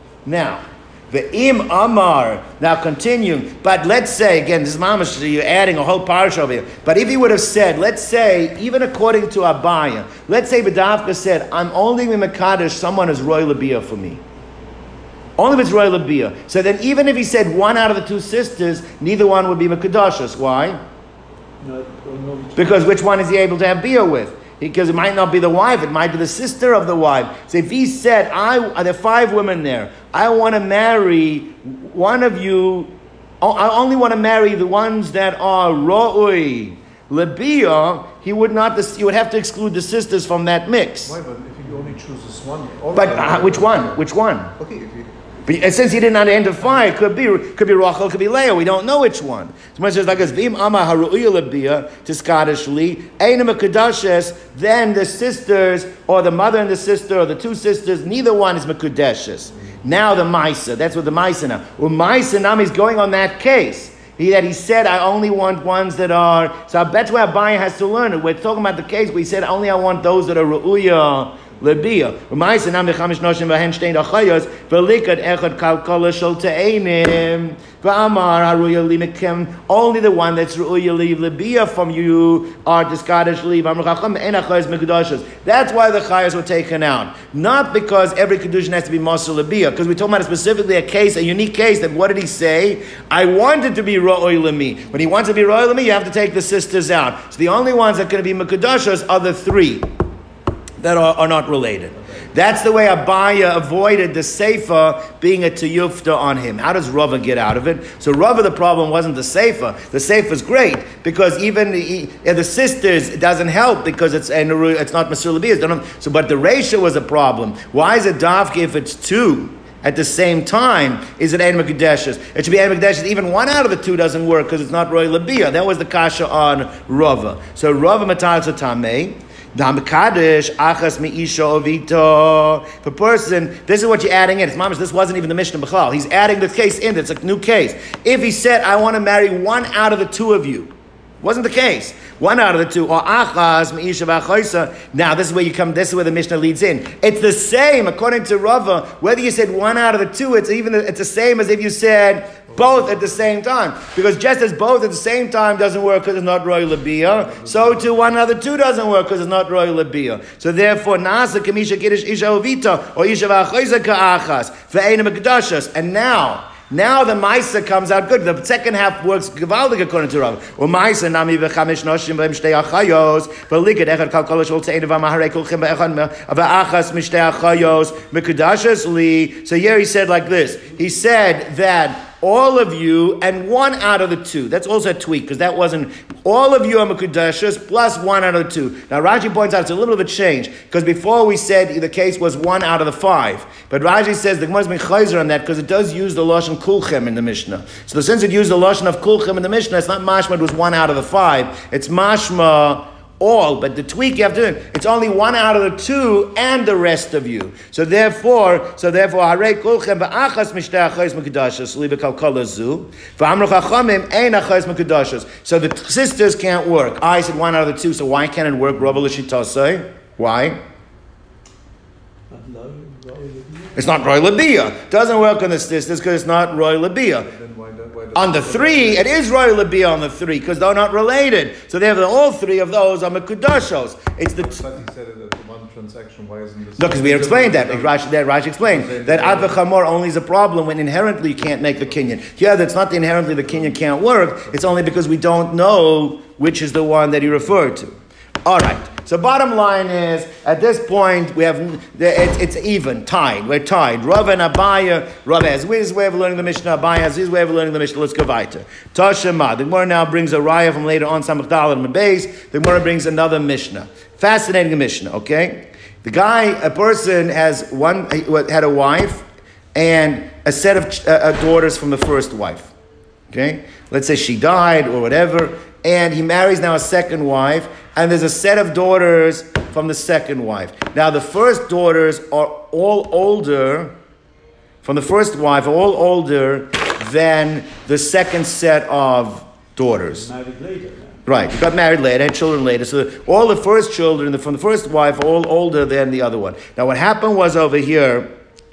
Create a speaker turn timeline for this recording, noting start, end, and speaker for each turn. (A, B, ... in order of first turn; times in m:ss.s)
0:00.2-0:14.2 A
0:15.4-0:20.8 A
0:21.6-0:22.9 B
0:22.6-0:41.1 A
0:41.0-0:44.0 C
0:42.9-0:44.5 A
0:44.6-0:45.2 C
0:45.4-1:39.9 A
1:40.8-3:40.6 A
2:32.5-2:33.2 C
2:37.0-2:38.2 C
3:42.3-3:44.1 B
3:43.8-3:47.3 A
3:47.2-3:49.2 C
3:48.1-3:54.6 A
3:54.3-3:58.0 C
3:56.8-4:32.7 A
3:58.6-3:59.6 C
4:33.3-4:43.9 A
4:44.8-4:50.3 A
4:50.0-4:51.2 B
4:51.2-4:58.3 A